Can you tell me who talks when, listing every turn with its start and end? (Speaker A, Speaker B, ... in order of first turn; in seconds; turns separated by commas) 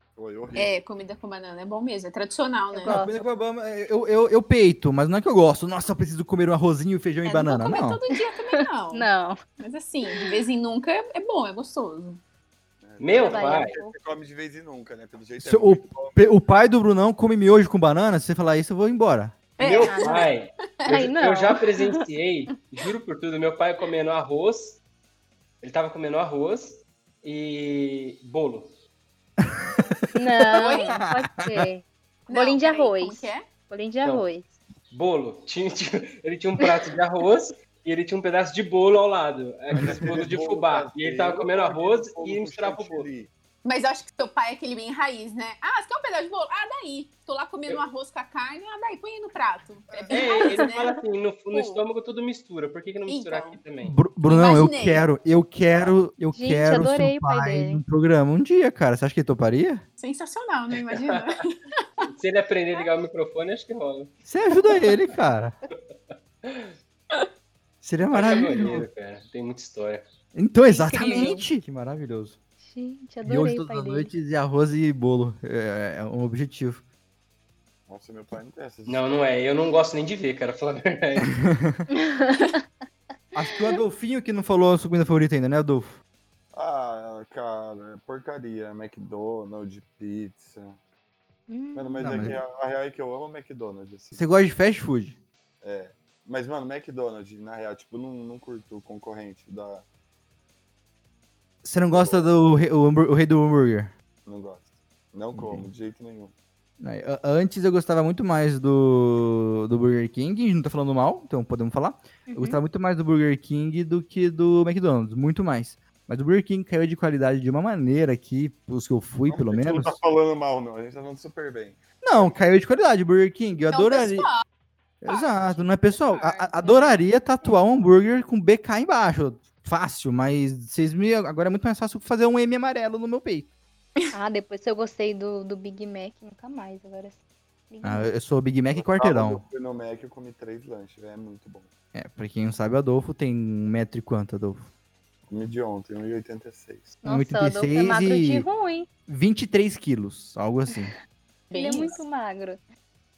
Speaker A: 0.1-0.7, Speaker B: 0.6-3.0, Speaker C: 2.7-3.1, Speaker D: 2.8-8.0, Speaker B: 7.2-9.1, Speaker C: 8.6-9.4, Speaker B: 9.6-12.2, Speaker A: 12.8-16.4, Speaker E: 13.0-13.7, Speaker C: 13.2-13.9, Speaker D: 15.4-19.3, Speaker B: 19.6-20.3, Speaker E: 19.6-24.8, Speaker C: 19.8-20.3, Speaker C: 20.9-22.0, Speaker E: 25.6-28.7, Speaker C: 30.1-34.4, Speaker B: 30.5-31.0, Speaker D: 30.7-31.7, Speaker B: 32.3-33.4, Speaker E: 34.9-43.1, Speaker D: 39.8-40.1, Speaker A: 39.8-43.3, Speaker B: 43.6-50.9, Speaker E: 50.1-54.0, Speaker B: 53.1-53.6, Speaker D: 53.8-59.8, Speaker B: 54.3-55.0, Speaker C: 56.3-57.8, Speaker B: 60.0-62.0, Speaker E: 60.8-61.2, Speaker E: 62.1-64.1, Speaker D: 64.2-65.5, Speaker E: 66.4-66.7, Speaker D: 67.8-68.9, Speaker E: 68.1-70.0, Speaker D: 70.3-72.4, Speaker B: 70.7-71.4, Speaker C: 72.6-74.1, Speaker D: 73.2-76.8, Speaker A: 77.9-79.0, Speaker E: 78.9-81.3, Speaker D: 81.4-81.8, Speaker C: 81.9-82.6, Speaker D: 83.3-86.0, Speaker A: 86.5-90.8, Speaker C: 91.5-92.3, Speaker A: 91.7-94.2, Speaker D: 92.0-92.4, Speaker D: 94.1-95.2, Speaker A: 95.6-99.8, Speaker D: 101.6-103.9, Speaker A: 101.9-102.2, Speaker A: 104.2-106.3, Speaker D: 105.3-105.7, Speaker D: 106.8-120.0, Speaker C: 112.3-112.6, Speaker A: 119.3-122.3, Speaker D: 122.0-124.3, Speaker B: 123.7-124.4, Speaker D: 125.0-133.5, Speaker B: 125.1-126.9, Speaker C: 134.1-137.2, Speaker C: 137.7-138.1, Speaker D: 137.8-139.4, Speaker A: 138.7-141.7, Speaker D: 141.9-144.7, Speaker A: 145.3-146.9, Speaker D: 147.0-148.5, Speaker C: 147.0-148.9, Speaker D: 149.1-150.9, Speaker B: 151.5-152.0, Speaker C: 151.5-152.6